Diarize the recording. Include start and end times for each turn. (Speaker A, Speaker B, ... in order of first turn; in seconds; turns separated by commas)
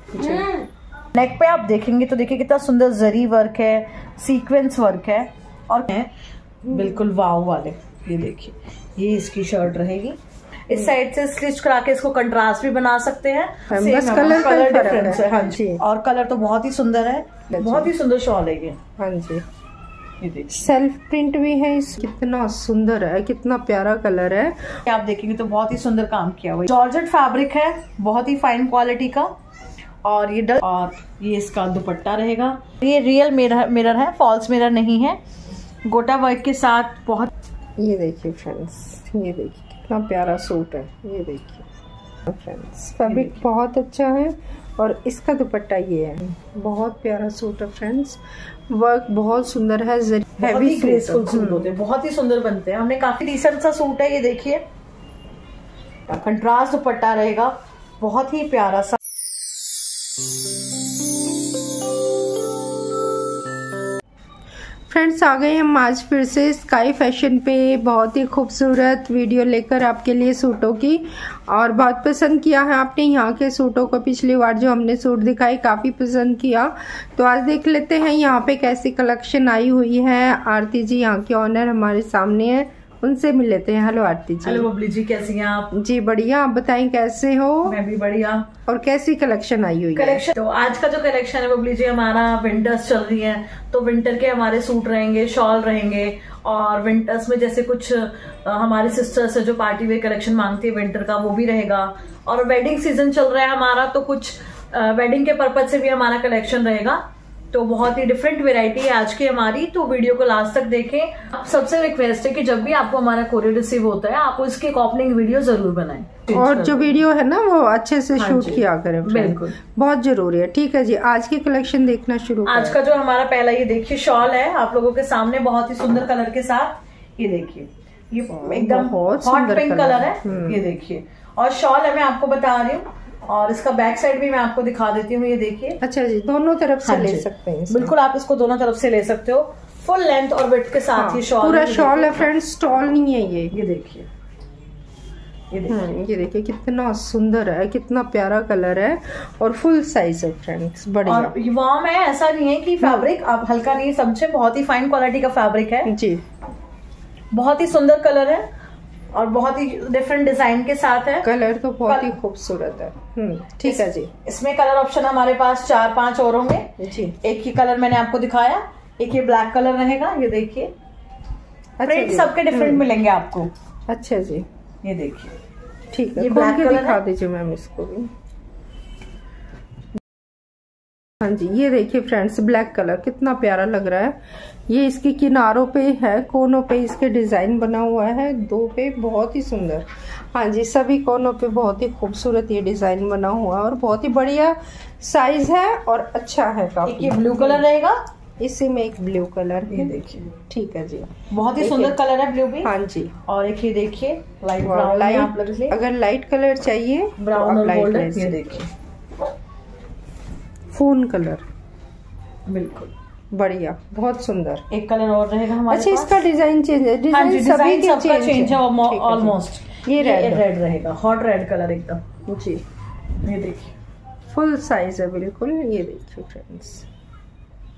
Speaker A: 0.1-0.6, Speaker B: 1.1-6.1, Speaker B: 6.7-18.8, Speaker A: 13.7-15.8, Speaker A: 17.5-17.9, Speaker A: 19.0-19.4, Speaker B: 20.2-20.7, Speaker A: 20.5-24.8, Speaker B: 24.9-29.3, Speaker B: 30.0-35.2, Speaker B: 35.9-37.3, Speaker A: 37.8-41.7, Speaker A: 42.3-51.7, Speaker B: 43.1-43.4, Speaker B: 50.4-54.6, Speaker B: 56.1-59.0, Speaker A: 64.9-84.7, Speaker B: 84.4-85.7, Speaker A: 85.7-87.8, Speaker B: 87.7-88.5, Speaker A: 88.7-90.2, Speaker B: 90.0-117.0, Speaker A: 116.3-122.8, Speaker B: 118.2-119.6, Speaker B: 122.5-135.8, Speaker A: 128.3-130.6, Speaker A: 135.8-137.9, Speaker B: 136.8-142.3, Speaker A: 140.9-143.5, Speaker B: 143.5-144.1, Speaker B: 145.5-145.9, Speaker A: 145.7-151.3, Speaker B: 151.1-155.9, Speaker A: 155.9-156.2, Speaker B: 157.3-158.5, Speaker B: 159.1-161.3, Speaker A: 161.2-164.1, Speaker B: 161.8-162.2, Speaker B: 163.6-166.7, Speaker A: 166.8-167.2, Speaker B: 167.2-170.7, Speaker A: 171.8-172.8, Speaker B: 171.8-173.5, Speaker A: 173.9-174.5, Speaker B: 174.8-175.4, Speaker A: 175.9-178.1, Speaker B: 176.2-177.0, Speaker A: 181.2-197.6, Speaker B: 196.9-198.0, Speaker A: 198.4-202.0, Speaker B: 199.7-200.3, Speaker B: 201.3-202.7, Speaker A: 202.6-203.1, Speaker B: 203.3-205.8, Speaker A: 204.6-208.5, Speaker B: 207.2-208.7, Speaker A: 210.7-211.4, Speaker B: 212.5-212.9, Speaker A: 213.3-214.7, Speaker B: 214.7-216.2, Speaker A: 215.7-220.4, Speaker B: 217.1-222.0, Speaker A: 222.3-222.6, Speaker B: 223.2-223.7, Speaker A: 224.3-226.9